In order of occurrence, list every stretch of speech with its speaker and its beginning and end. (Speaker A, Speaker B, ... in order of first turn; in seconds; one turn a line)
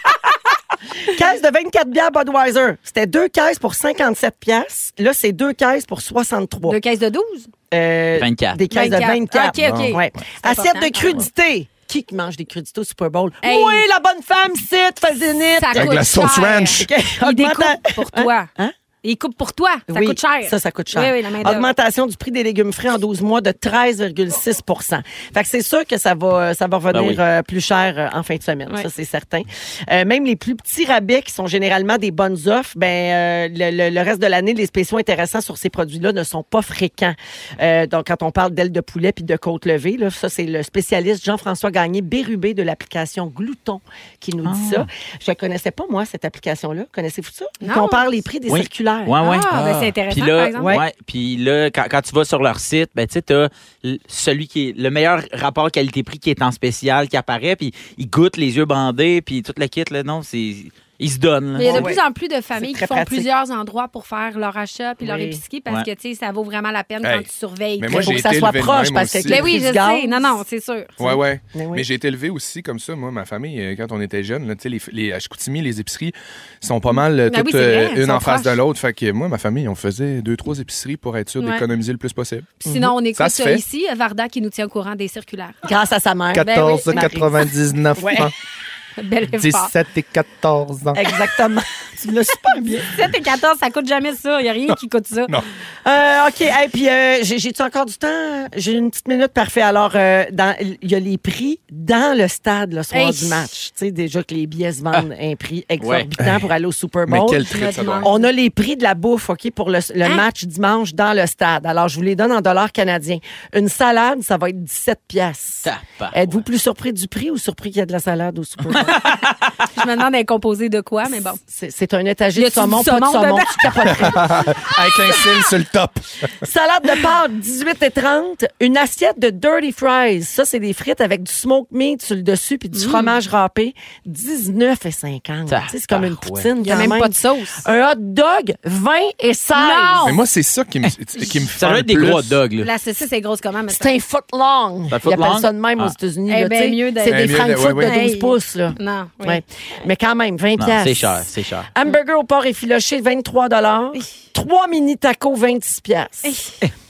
Speaker A: 1.1-6.8
Speaker B: 6.7-7.5
Speaker A: 7.7-16.2
Speaker C: 8.2-8.6
Speaker B: 8.7-11.2
Speaker D: 9.6-9.9
Speaker B: 13.4-13.8
Speaker B: 15.6-18.5
Speaker D: 15.8-16.8
Speaker A: 16.7-18.7
Speaker B: 19.0-21.7
Speaker A: 19.9-49.1
Speaker C: 26.9-27.2
Speaker C: 44.4-44.9
Speaker B: 47.6-48.0
Speaker C: 48.5-61.9
Speaker B: 49.2-50.8
Speaker D: 49.5-49.9
Speaker A: 50.5-50.8
Speaker B: 61.5-68.4
Speaker A: 61.6-62.0
Speaker A: 62.5-63.3
Speaker A: 65.0-65.4
Speaker D: 67.0-67.3
Speaker D: 67.8-69.5
Speaker A: 67.9-70.4
Speaker B: 69.3-70.9
Speaker D: 71.0-82.6
Speaker A: 71.0-71.8
Speaker B: 77.3-78.6
Speaker B: 81.4-81.6
Speaker B: 82.6-85.6
Speaker A: 82.6-82.9
Speaker D: 83.1-83.6
Speaker A: 85.7-87.3
Speaker D: 86.3-88.3
Speaker B: 86.4-86.8
Speaker A: 88.0-88.3
Speaker B: 89.0-89.7
Speaker D: 89.2-91.0
Speaker A: 90.9-92.9
Speaker B: 92.8-95.4
Speaker D: 94.7-95.5
Speaker A: 95.8-107.4
Speaker B: 102.9-103.5
Speaker C: 105.8-106.1
Speaker D: 106.2-106.4
Speaker D: 107.1-108.1
Speaker B: 107.4-108.3
Speaker A: 108.0-119.0
Speaker C: 115.6-116.4
Speaker B: 118.7-121.4
Speaker A: 121.5-124.4
Speaker B: 122.3-124.3
Speaker D: 124.0-126.2
Speaker A: 126.4-140.1
Speaker B: 132.7-133.2
Speaker C: 135.5-136.5
Speaker B: 136.6-137.6
Speaker B: 139.5-140.2
Speaker D: 140.0-142.4
Speaker C: 141.6-142.7
Speaker B: 142.6-143.9
Speaker A: 143.7-156.4
Speaker C: 144.9-145.9
Speaker B: 146.3-149.4
Speaker D: 147.0-147.9
Speaker C: 150.6-151.7
Speaker B: 156.2-156.5